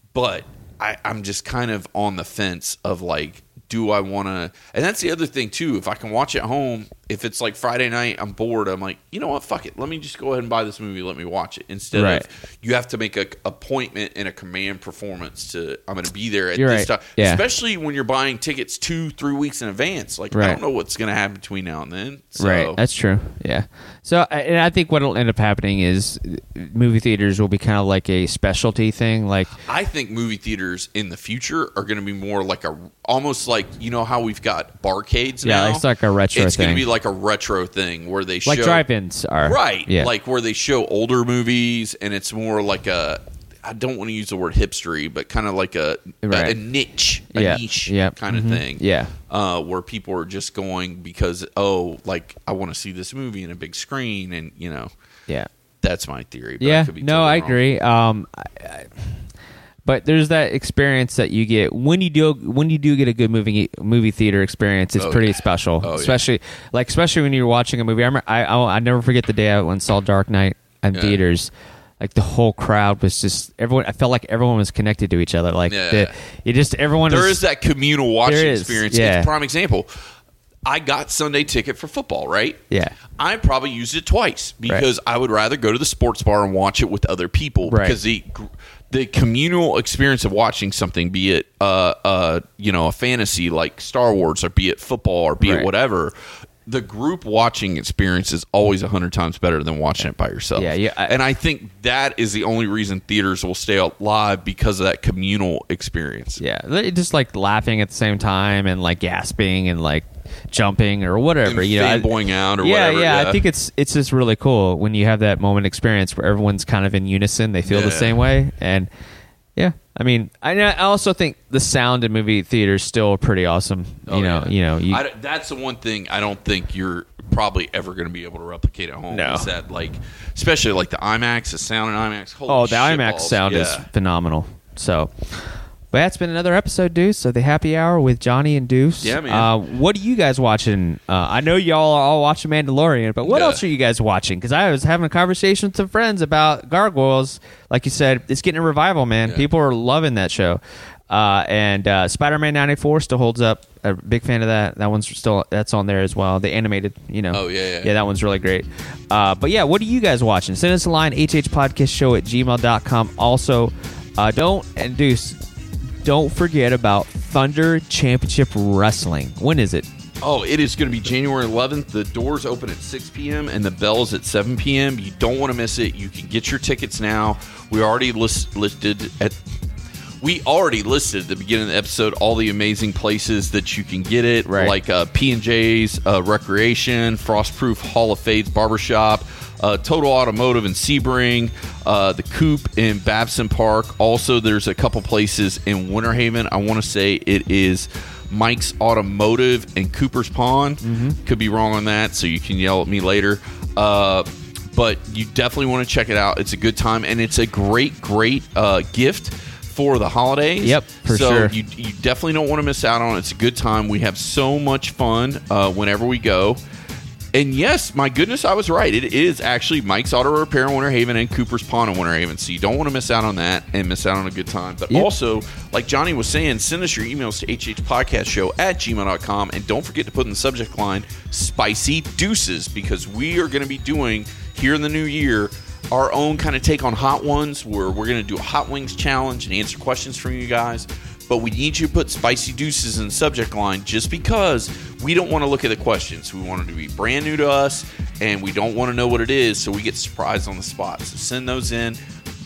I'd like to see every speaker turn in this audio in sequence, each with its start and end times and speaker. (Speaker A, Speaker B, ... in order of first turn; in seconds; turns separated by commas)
Speaker A: 0.1-22.8, Speaker B: 11.9-12.2, Speaker B: 16.6-17.4, Speaker B: 20.3-20.6, Speaker B: 22.4-29.5, Speaker A: 29.7-38.8, Speaker B: 35.4-36.8, Speaker B: 38.5-40.1, Speaker A: 39.4-54.9, Speaker B: 46.2-46.6, Speaker B: 47.3-49.1, Speaker A: 55.8-57.6, Speaker B: 56.6-59.2, Speaker B: 59.9-77.4, Speaker A: 65.0-66.2, Speaker A: 70.9-71.2, Speaker A: 75.7-76.1, Speaker A: 77.1-79.9, Speaker B: 78.2-79.3, Speaker A: 80.7-82.6, Speaker B: 82.7-83.0, Speaker A: 83.2-96.1, Speaker B: 87.7-88.0, Speaker B: 95.4-95.7, Speaker A: 96.7-106.4, Speaker B: 100.6-101.2, Speaker B: 106.4-118.9, Speaker A: 111.5-113.4, Speaker A: 117.7-118.2, Speaker B: 119.6-125.0, Speaker A: 124.1-133.9, Speaker B: 129.1-129.5, Speaker B: 132.5-165.4, Speaker A: 139.0-139.5, Speaker A: 143.2-143.6, Speaker A: 157.3-157.9, Speaker B: 166.0-169.9, Speaker A: 170.2-179.4, Speaker A: 180.2-216.6, Speaker B: 184.5-184.8, Speaker B: 200.8-201.2, Speaker B: 210.6-211.5, Speaker A: 217.3-252.0